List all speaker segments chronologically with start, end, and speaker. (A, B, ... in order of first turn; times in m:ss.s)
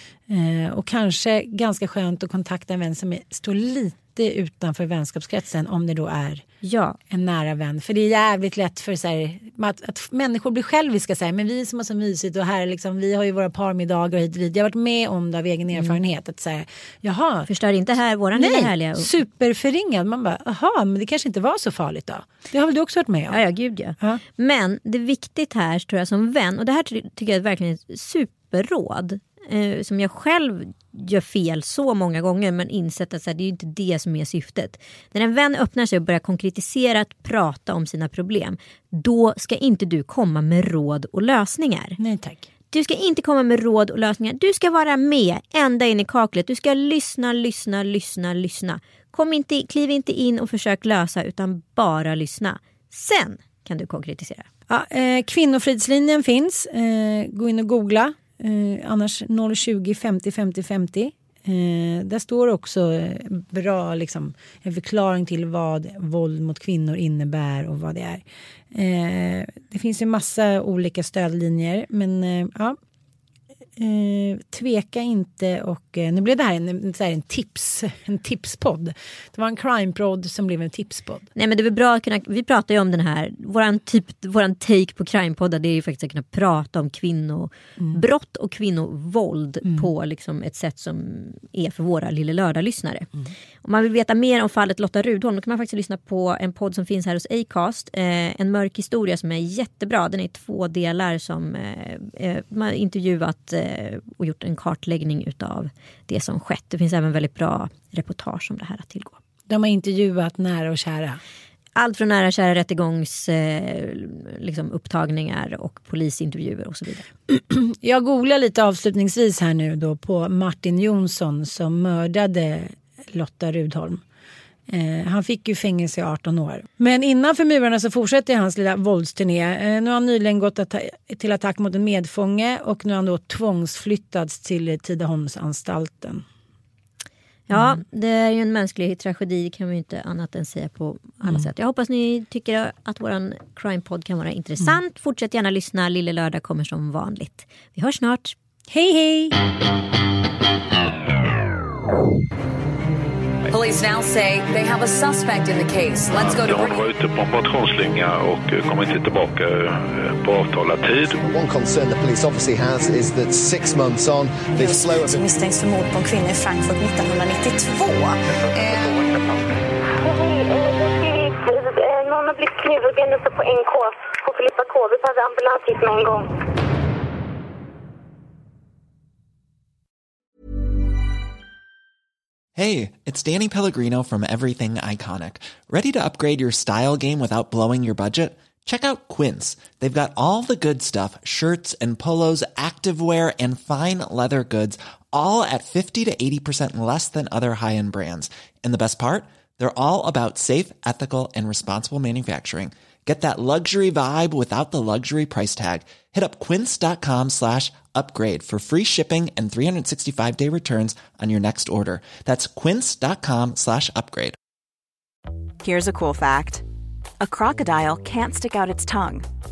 0:00.3-0:06.4 A
0:06.6-0:07.0 B
0:07.1-0:17.5 A
0:17.5-0:19.1 B
0:18.4-0:23.4 A
0:23.3-0:42.0 B
0:42.0-0:42.5 A
0:42.7-0:54.5 B
0:54.7-1:12.8 A
1:13.8-1:21.3 A
1:21.3-1:33.1 B
1:33.6-1:49.2 B
1:49.5-1:51.2 A
1:51.8-1:57.0 B
1:57.3-2:04.0 A
2:04.7-2:16.2 A
2:17.5-2:28.4 B
2:17.5-2:17.8 A
2:28.7-2:29.3 A
2:33.5-2:36.8 C
2:36.2-2:41.2 D
2:41.2-2:45.2 E
2:45.0-2:48.2 F
2:48.5-2:49.0 C
2:50.0-2:56.3 G
3:02.5-3:34.4 H
3:35.6-3:36.6 I
3:37.2-3:39.3 I